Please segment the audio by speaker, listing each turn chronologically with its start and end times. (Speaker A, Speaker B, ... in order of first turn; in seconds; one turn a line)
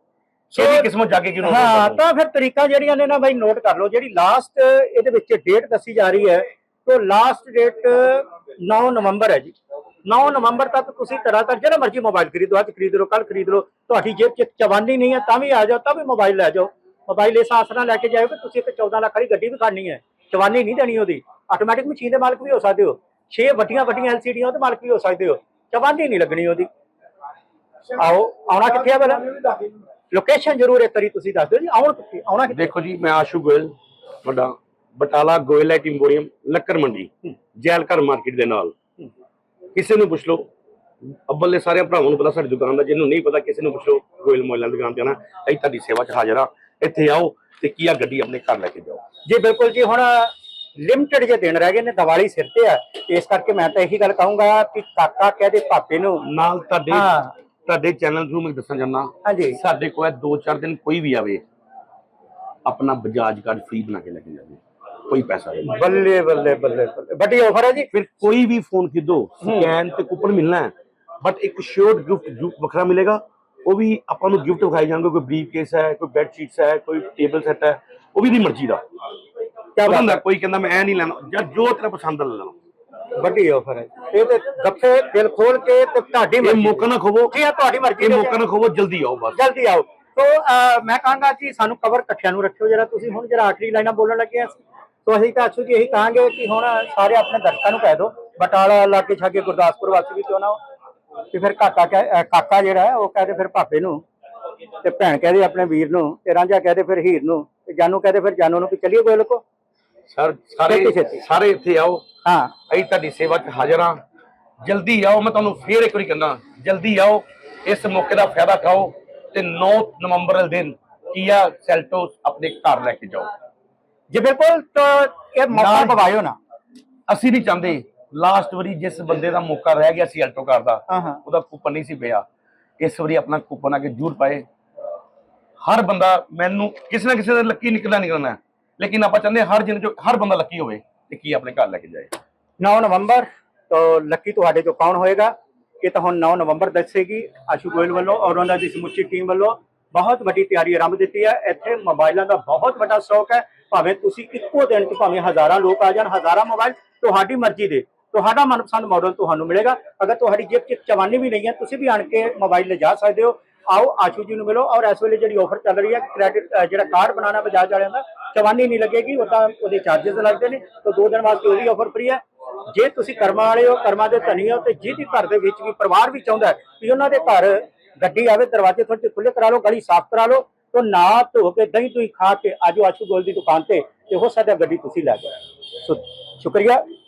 Speaker A: 0.5-0.9
Speaker B: 0.6-2.0
Speaker A: 1.4-26.7
Speaker A: 27.9-29.4
Speaker A: 30.1-32.7
Speaker B: 32.5-38.8
Speaker B: 39.7-40.5
Speaker B: 41.1-49.0
Speaker A: 49.3-56.2
Speaker B: 56.2-61.4
Speaker A: 56.9-57.3
Speaker A: 59.2-59.6
Speaker B: 62.6-65.7
Speaker A: 65.6-67.9
Speaker B: 67.9-78.8
Speaker A: 69.4-69.7
Speaker A: 79.8-80.2
Speaker B: 79.8-82.6
Speaker A: 83.1-88.4
Speaker B: 86.4-87.4
Speaker B: 88.0-89.4
Speaker A: 89.3-100.6
Speaker A: 101.3-104.0
Speaker A: 104.8-109.4
Speaker B: 110.1-112.0
Speaker A: 110.7-111.2
Speaker A: 112.2-112.5
Speaker B: 112.7-114.0
Speaker B: 114.6-123.3
Speaker A: 124.1-126.4
Speaker B: 125.5-126.1
Speaker B: 127.1-132.2
Speaker A: 130.9-131.2
Speaker B: 132.8-134.4
Speaker B: 135.6-142.1
Speaker A: 142.6-186.8